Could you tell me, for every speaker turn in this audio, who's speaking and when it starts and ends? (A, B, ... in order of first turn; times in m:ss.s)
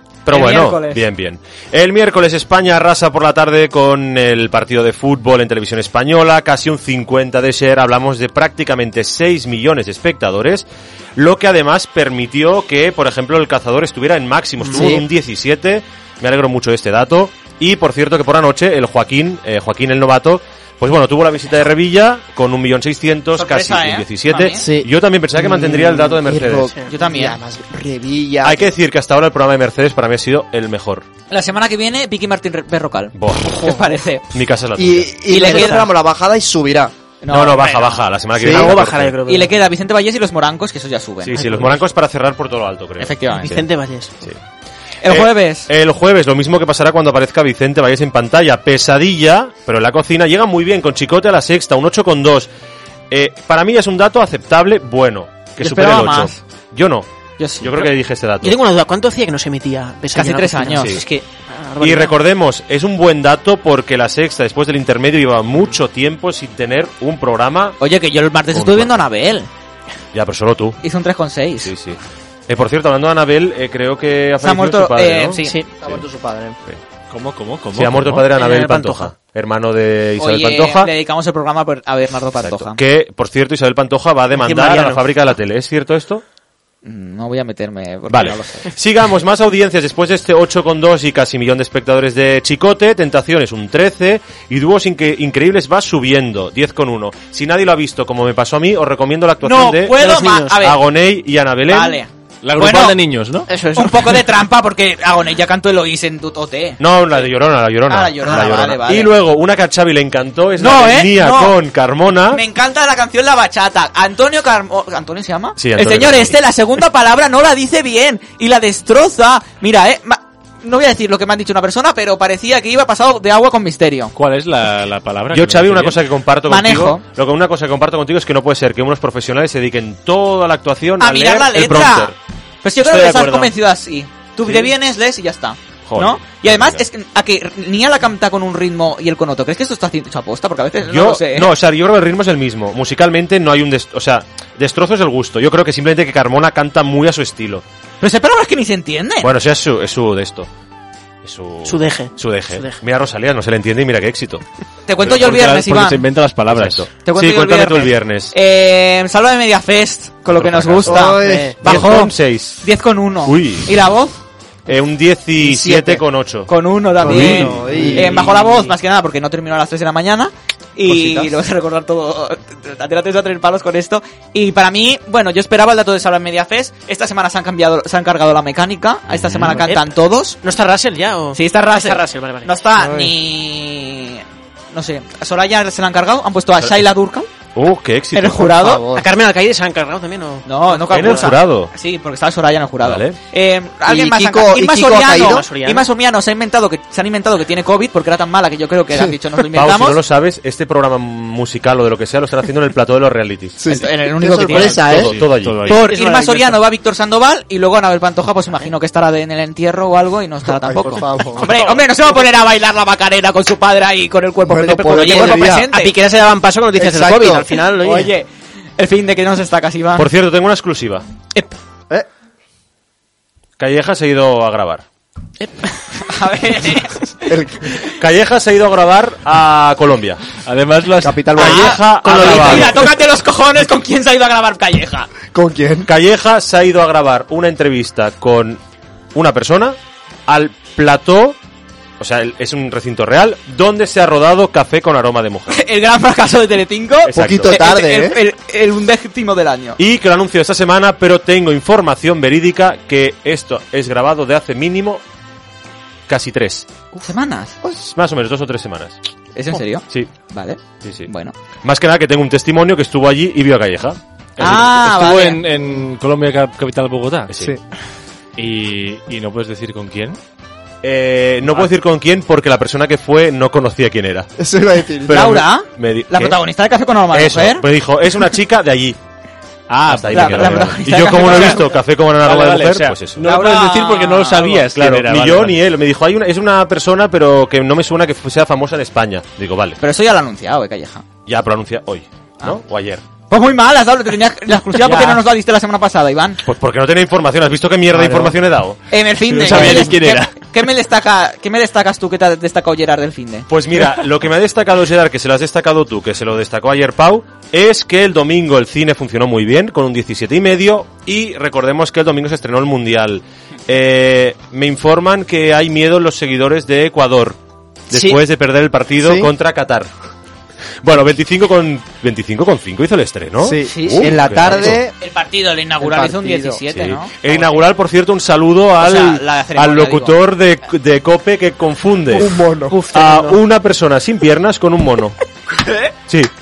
0:00.2-0:26.7 A
0:00.3-0:01.0 B
0:14.6-0:15.0 C
0:23.3-0:24.6 B
0:24.6-0:28.7 C
0:26.9-0:27.4 B
0:28.4-0:31.0 A
0:31.3-0:34.3 B
0:33.1-0:33.6 A
0:33.4-0:33.9 C
0:34.3-0:35.4 A
0:34.8-0:36.9 C
0:35.3-0:35.9 B
0:35.4-0:35.9 D
0:37.2-0:38.1 B
0:37.3-0:39.2 A
0:38.4-0:38.7 C
0:38.4-0:39.5 D
0:39.2-0:41.7 B
0:41.2-0:43.7 A
0:43.0-0:43.5 B
0:43.4-0:44.2 D
0:45.0-0:45.7 B
0:45.1-0:52.5 A
0:53.1-0:57.1 A
0:55.6-0:56.4 B
0:57.4-0:57.9 B
0:57.6-0:58.6 A
0:58.4-1:02.2 D
1:00.1-1:01.0 B
1:00.8-1:01.0 A
1:01.8-1:07.8 A
1:07.8-1:09.5 B
1:08.5-1:09.0 A
1:10.1-1:10.8 A
1:10.8-1:11.7 B
1:11.6-1:16.0 A
1:14.4-1:15.5 B
1:15.4-1:15.7 D
1:15.8-1:16.6 C
1:17.1-1:18.2 E
1:17.7-1:20.9 A
1:18.3-1:19.1 D
1:20.2-1:22.8 B
1:22.4-1:26.2 A
1:24.3-1:25.1 D
1:26.8-1:28.7 B
1:28.1-1:40.0 A
1:39.4-1:40.8 B
1:40.0-1:40.6 D
1:40.6-1:42.0 A
1:41.7-1:43.0 B
1:42.4-1:43.5 E
1:43.5-1:44.2 D
1:43.7-1:47.3 B
1:46.8-1:52.4 A
1:47.9-1:49.1 B
1:50.6-1:51.6 B
1:52.3-2:04.1 B
1:55.6-1:56.4 A
2:04.1-2:06.0 E
2:05.3-2:12.1 A
2:06.5-2:07.0 B
2:11.0-2:21.5 B
2:12.8-2:13.5 D
2:15.9-2:16.8 A
2:20.8-2:27.6 A
2:28.0-2:29.3 B
2:29.2-2:30.5 A
2:31.2-2:34.4 A
2:31.6-2:32.8 D
2:34.9-2:36.0 B
2:35.0-2:35.4 A
2:35.0-2:36.8 E
2:36.5-2:38.3 A
2:37.0-2:44.2 B
2:40.3-2:42.6 A
2:40.8-2:41.6 C
2:41.2-2:41.6 D
2:43.2-2:43.8 A
2:44.6-2:46.5 A
2:45.4-2:46.0 C
2:46.5-3:00.4 B
2:47.0-2:48.5 C
2:47.0-2:48.2 A
2:59.1-2:59.6 A
2:59.6-2:59.8 D
3:00.4-3:02.5 D
3:01.3-3:07.3 B
3:02.8-3:03.1 C
3:07.5-3:08.6 A
3:08.1-3:08.8 B
3:08.4-3:09.1 C
3:08.9-3:11.3 D
3:10.4-3:20.0 B
3:10.9-3:11.7 A
3:12.8-3:13.1 A
3:13.8-3:15.4 C
3:15.1-3:15.9 D
3:19.5-3:23.6 A
3:23.6-3:25.1 C
3:23.7-3:25.0 B
3:24.5-3:25.8 A
3:24.6-3:25.8 E
3:25.6-3:35.9 B
3:25.8-3:26.6 D
3:30.4-3:31.5 C
3:34.4-3:35.7 C
3:34.9-3:38.1 D
3:36.8-3:37.5 C
3:37.8-3:38.3 B
3:38.8-3:40.1 B
3:40.0-3:41.1 A
3:43.6-3:44.8 A
3:45.4-3:45.9 D
3:46.0-3:47.1 B
3:47.2-3:47.8 C
3:48.0-3:50.2 A
3:50.4-3:51.4 E
3:51.0-3:52.6 C
3:51.4-3:52.9 A
3:51.4-3:55.1 B
3:55.3-3:55.9 C
3:55.8-3:58.6 A
3:59.1-4:01.4 A
4:02.0-4:05.6 A
4:05.5-4:09.8 B
4:07.0-4:07.6 A
4:07.1-4:08.2 C
4:09.8-4:15.0 A
4:16.1-4:16.7 A
4:17.0-4:17.6 B
4:17.8-4:19.0 A
4:19.3-4:21.3 B
4:20.8-4:21.1 A
4:21.6-4:24.7 A
4:24.4-4:25.4 B
4:24.4-4:27.3 E
4:27.3-4:27.6 A
4:28.4-4:30.2 E
4:30.8-4:34.3 A
4:34.4-4:35.4 C
4:35.0-4:36.4 A
4:35.1-4:37.6 B
4:37.1-4:39.0 A
4:39.7-4:41.6 E
4:39.9-4:43.2 A
4:40.1-4:41.7 B
4:42.2-4:45.6 E
4:43.2-4:44.6 B
4:44.7-4:49.8 A
4:49.8-4:51.0 B
4:51.2-4:53.0 A
4:53.3-4:56.4 B
4:54.8-4:55.2 E
4:56.4-4:58.8 A
4:57.9-4:58.3 C
4:58.9-5:03.5 B
4:59.3-5:00.3 E
4:59.5-4:59.9 A
5:03.5-5:17.4 A
5:17.9-5:19.9 A
5:19.0-5:19.3 C
5:20.8-5:24.8 A
5:23.4-5:24.9 C
5:25.0-5:27.5 B
5:25.8-5:26.6 C
5:26.7-5:35.2 A
5:28.8-5:30.2 B
5:32.1-5:32.8 C
5:32.7-5:33.4 D